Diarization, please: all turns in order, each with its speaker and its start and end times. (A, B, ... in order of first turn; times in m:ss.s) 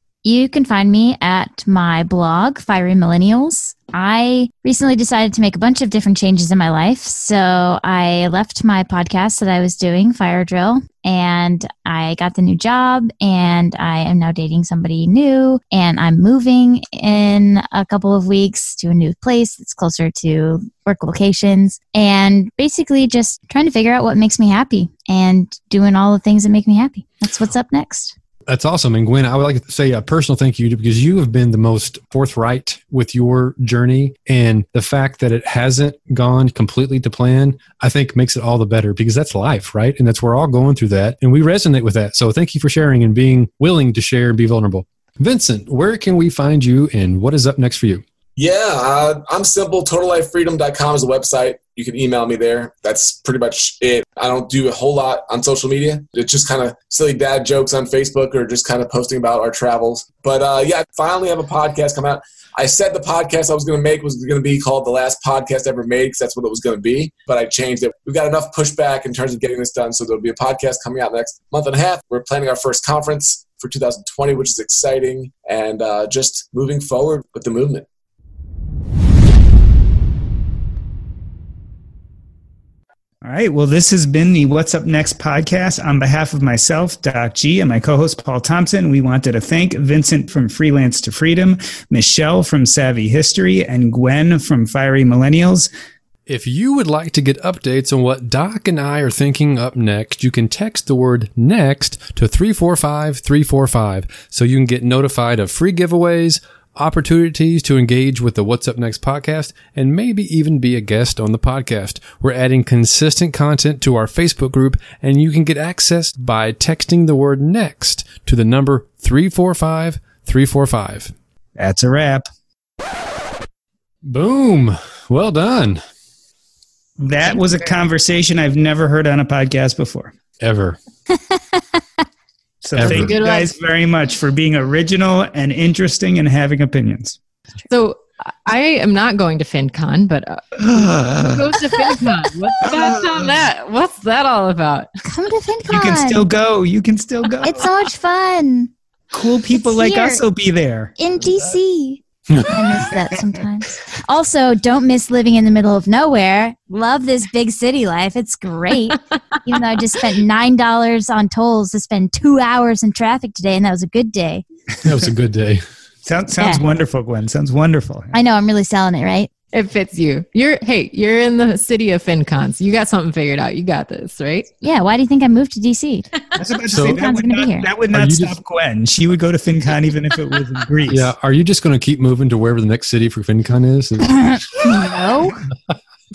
0:00.2-0:28.1 A
0:28.5-0:48.0 B
0:48.4-1:17.8 C
1:23.2-1:35.7 D
1:36.3-2:01.1 B
2:01.6-2:02.2 D
2:04.0-2:05.8 B
2:07.0-2:10.1 D
2:10.4-2:10.8 B
2:12.6-2:17.2 D
2:12.8-2:13.1 B
2:12.8-2:13.5 E
2:17.7-2:24.9 E
2:20.7-2:21.4 D
2:22.6-2:23.0 D
2:25.0-2:26.2 A
2:25.7-2:27.7 D
2:27.4-2:28.7 A
2:29.1-2:30.9 D
2:29.5-2:30.2 A
2:31.0-2:44.4 A
2:44.8-2:45.6 B
2:46.0-2:48.1 D
2:46.4-2:46.6 A
2:48.1-2:49.3 A
2:49.5-2:54.5 E
2:54.6-2:56.1 A
2:56.4-3:01.1 D
2:56.7-2:57.7 A
2:56.7-2:57.0 B
2:57.9-2:58.4 B
3:00.9-3:04.3 B
3:04.0-3:05.4 A